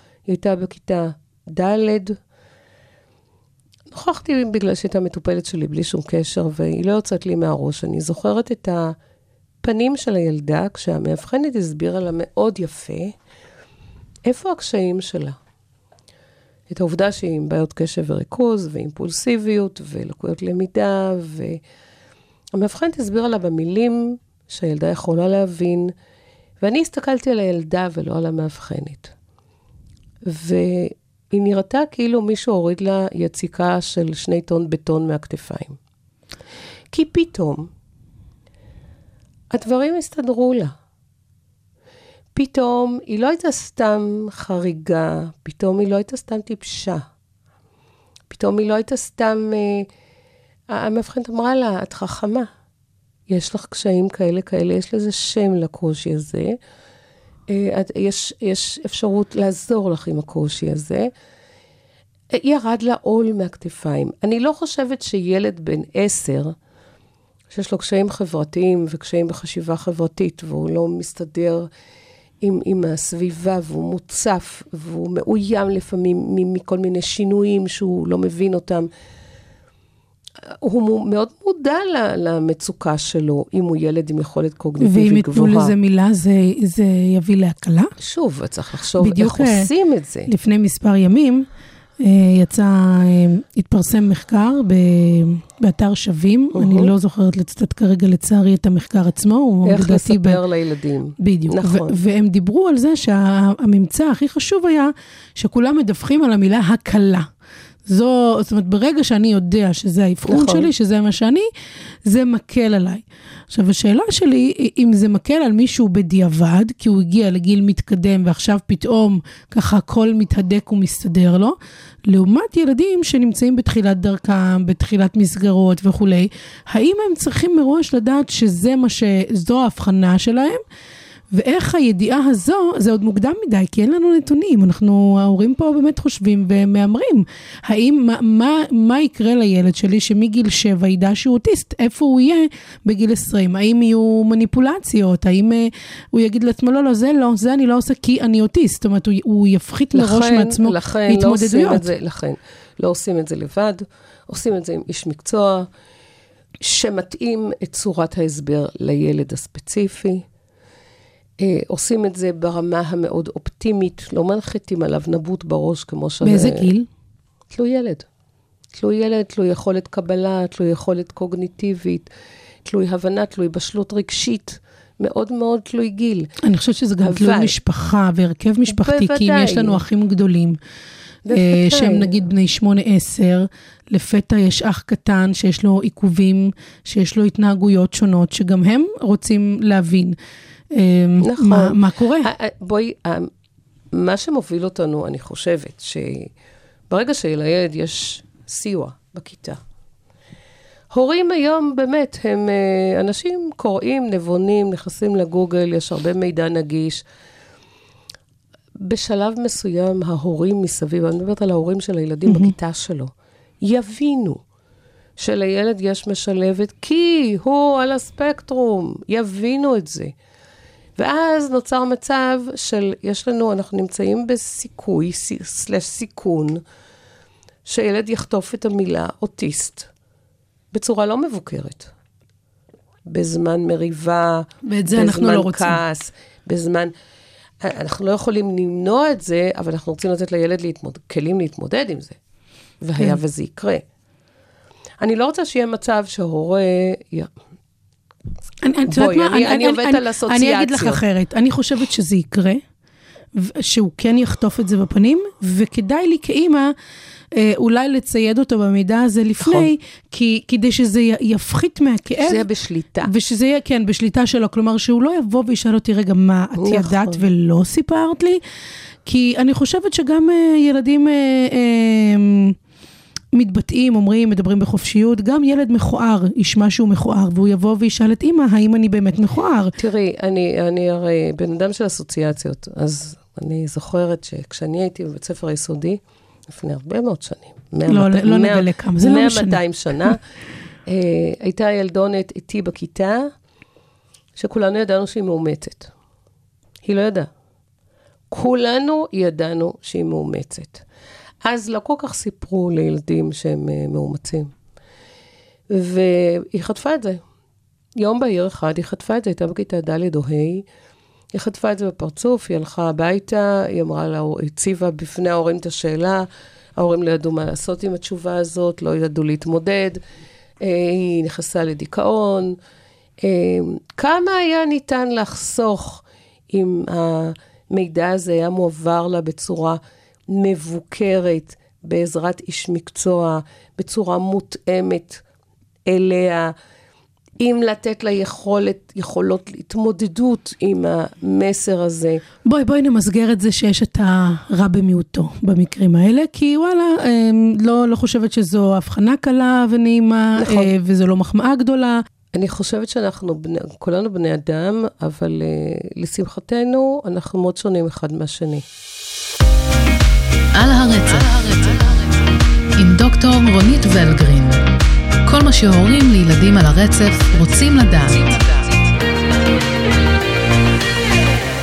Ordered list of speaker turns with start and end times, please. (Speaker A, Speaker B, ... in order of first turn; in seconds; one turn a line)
Speaker A: 0.3-2.2
Speaker A: 3.9-9.0
Speaker A: 9.6-13.2
Speaker A: 14.3-15.4
Speaker A: 16.7-21.6
Speaker A: 22.5-25.9
Speaker A: 26.6-29.1
Speaker A: 30.2-35.8
Speaker A: 36.9-37.7
Speaker A: 39.5-40.8
Speaker A: 42.4-47.0
Speaker A: 48.3-49.9
Speaker A: 50.7-52.5
Speaker A: 53.3-56.6
Speaker A: 57.5-61.1
Speaker A: 62.3-66.6
Speaker A: 67.5-71.7
Speaker A: 72.4-78.9
Speaker A: 80.6-85.7
Speaker B: 84.8-87.9
Speaker A: 88.0-90.3
Speaker B: 89.0-89.7
Speaker B: 90.3-91.5
Speaker B: 92.0-100.4
Speaker A: 96.5-96.9
Speaker A: 99.7-102.0
Speaker B: 101.2-107.3
Speaker B: 107.9-111.5
Speaker A: 110.3-110.7
Speaker B: 112.1-121.6
Speaker B: 122.1-130.6
Speaker B: 131.3-151.9
Speaker A: 149.9-155.7
Speaker A: 156.6-160.2
Speaker A: 161.4-166.7
Speaker B: 166.2-166.9
Speaker A: 167.5-168.1
Speaker A: 168.7-172.1
Speaker A: 172.7-176.3
Speaker B: 176.4-180.6
Speaker A: 177.0-177.6
Speaker A: 178.7-179.8
Speaker A: 181.2-182.1
Speaker B: 181.3-190.2
Speaker B: 190.7-192.3
Speaker A: 191.2-193.3
Speaker A: 193.9-196.3
Speaker A: 196.9-199.6
Speaker A: 200.9-207.0
Speaker A: 208.8-214.4
Speaker B: 212.3-212.5
Speaker A: 215.2-220.2
Speaker A: 221.0-226.6
Speaker A: 227.7-229.9
Speaker A: 230.7-231.9
Speaker A: 233.1-236.9
Speaker B: 234.7-235.8
Speaker A: 237.6-242.2
Speaker A: 242.8-243.8
Speaker A: 245.0-247.3
Speaker B: 248.6-252.6
Speaker A: 248.9-251.0
Speaker B: 253.4-256.7
Speaker B: 257.3-262.4
Speaker A: 259.4-259.7
Speaker A: 262.2-263.1
Speaker B: 263.0-268.4
Speaker A: 266.6-267.2
Speaker B: 269.1-272.5
Speaker B: 273.3-279.8
Speaker A: 279.8-290.2
Speaker B: 287.9-289.6
Speaker A: 290.9-293.3
Speaker A: 294.4-295.9
Speaker A: 296.8-297.3
Speaker A: 298.3-300.8
Speaker A: 301.4-304.5
Speaker A: 305.7-307.2
Speaker A: 308.0-310.7
Speaker A: 311.3-320.0
Speaker A: 320.6-322.6
Speaker A: 323.2-329.8
Speaker A: 330.3-335.2
Speaker A: 335.9-336.5
Speaker A: 337.4-342.2
Speaker B: 342.5-352.0
Speaker A: 350.4-350.7
Speaker A: 352.3-358.6
Speaker C: 360.6-364.6
Speaker C: 365.2-369.1